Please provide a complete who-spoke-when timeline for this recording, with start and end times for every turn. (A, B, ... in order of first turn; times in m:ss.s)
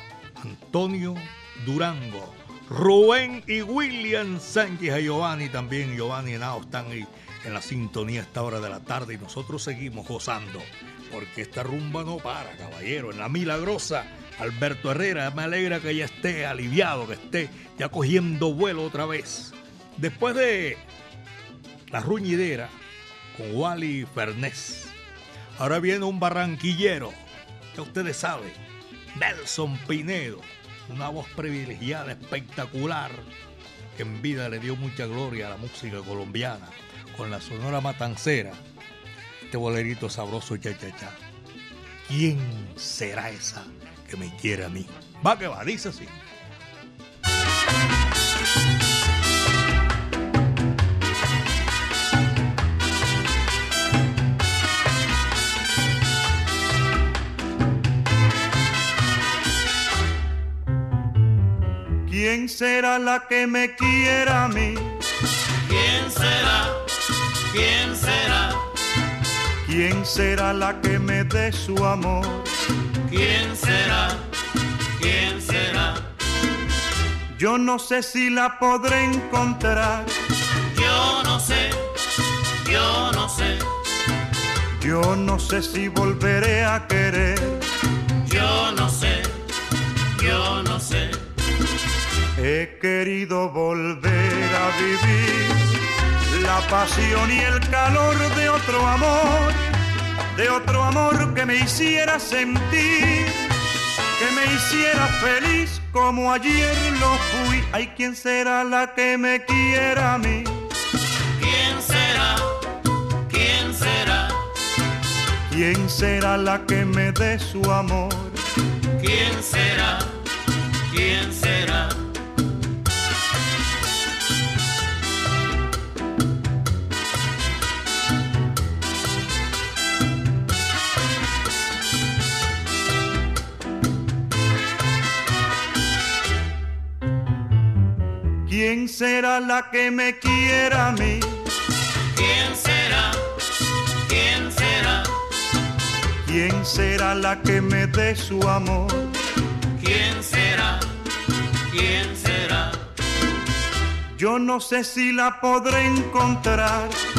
0:00.4-0:20.8 A
0:21.9-0:22.8 A
0:23.3-0:25.0 A
0:25.6-0:27.2 A
0:27.7-0:28.6 A
0:29.1-0:33.2 A
0:33.9-0:38.6 A
0:39.5-0:41.2 A
0:42.0-0:46.1 A
1:02.1-1:05.0 B
1:05.6-1:06.8 C
1:07.5-1:08.6 C
1:09.6-1:12.5 B
1:13.1-1:14.2 C
1:15.0-1:16.0 C
1:17.3-1:20.1 B
1:20.7-1:21.8 C
1:22.6-1:23.6 C
1:24.8-1:27.6 B
1:28.2-1:29.4 C
1:30.1-1:31.2 C
1:32.4-1:35.6 B
1:36.3-1:39.6 B
1:40.3-1:43.4 B
1:44.2-1:50.7 B
1:51.4-1:52.5 C
1:53.3-1:54.4 C
1:55.5-1:58.4 B
1:59.0-2:00.1 C
2:00.9-2:02.0 C
2:18.5-2:21.4 B
2:22.1-2:23.2 C
2:24.0-2:25.1 C
2:26.2-2:29.1 B
2:29.8-2:30.8 C
2:31.7-2:32.8 C
2:34.1-2:37.0 B